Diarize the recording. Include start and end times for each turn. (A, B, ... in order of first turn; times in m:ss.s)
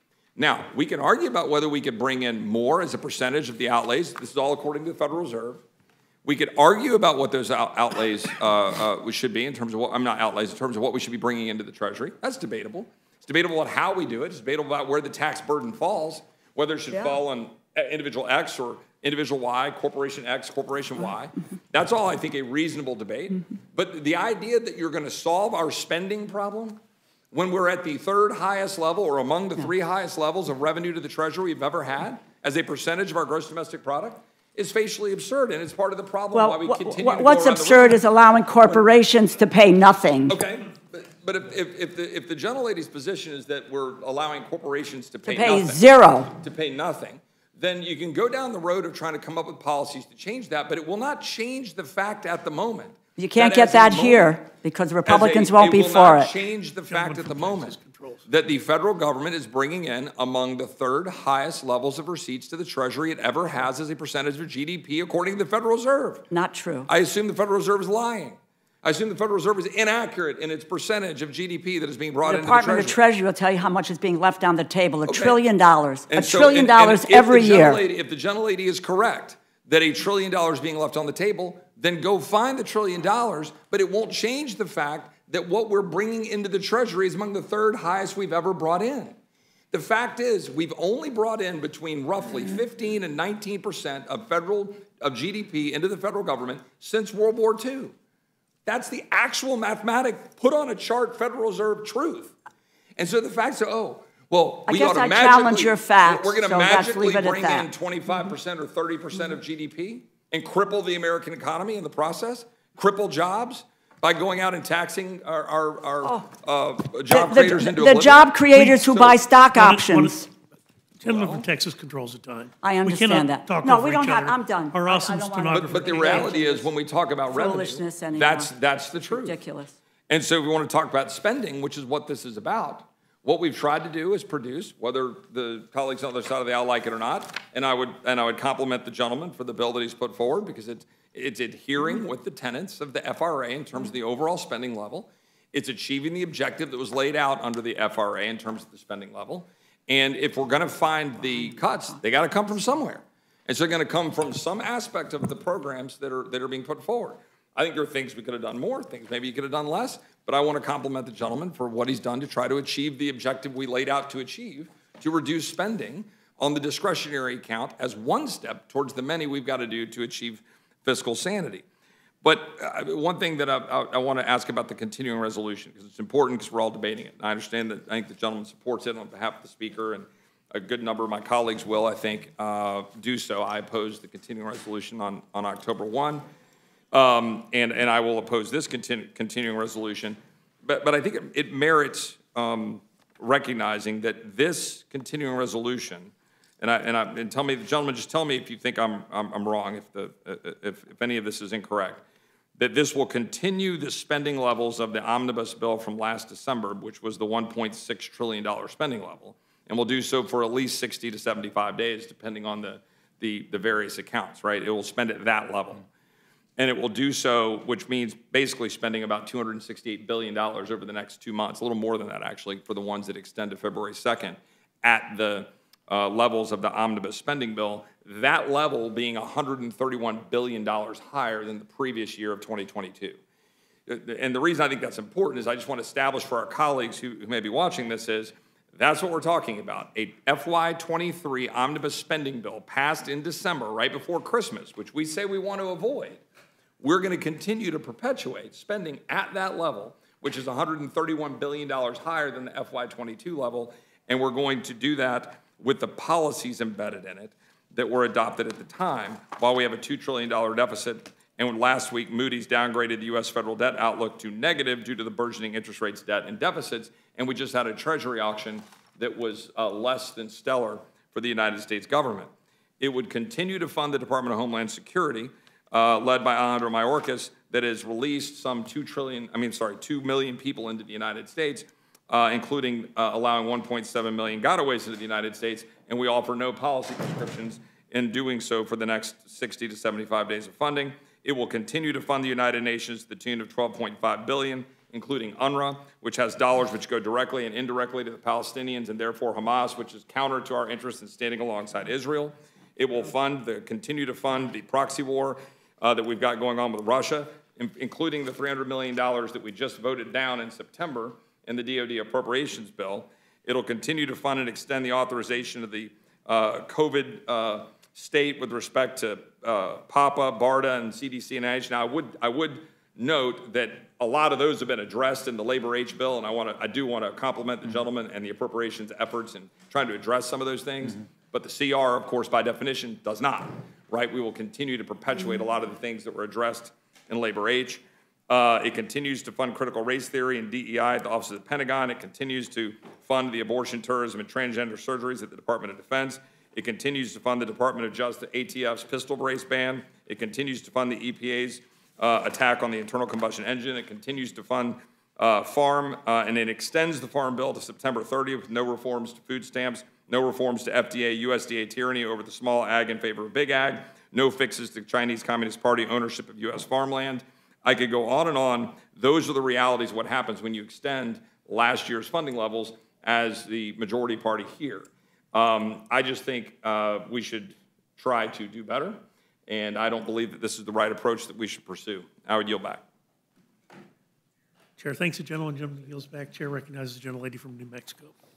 0:00.4-0:05.6 A
0:06.2-0:26.8 A
0:16.9-0:17.2 B
0:27.3-0:38.0 A
0:36.3-0:40.4 B
0:40.3-0:54.4 A
0:45.2-0:46.3 B
0:53.2-0:56.3 B
0:55.0-1:06.2 A
0:56.9-0:58.2 C
1:06.3-1:06.9 B
1:06.9-1:13.0 A
1:12.2-1:17.8 B
1:15.1-1:15.4 A
1:16.1-1:29.1 A
1:29.7-1:37.9 A
1:38.6-1:42.3 A
1:43.0-1:59.2 A
1:44.7-1:47.7 B
1:57.1-2:00.3 B
1:58.5-1:58.8 C
1:59.5-2:00.2 C
2:01.0-2:06.3 C
2:01.0-2:01.5 A
2:02.6-2:06.7 B
2:05.5-2:09.4 A
2:07.3-2:09.8 B
2:10.1-2:51.6 A
2:52.2-3:06.2 A
3:06.9-3:22.0 A
3:22.6-3:35.8 A
3:36.6-3:53.2 A
3:53.9-4:06.2 A
4:06.8-6:22.8 A
6:24.8-6:28.1 C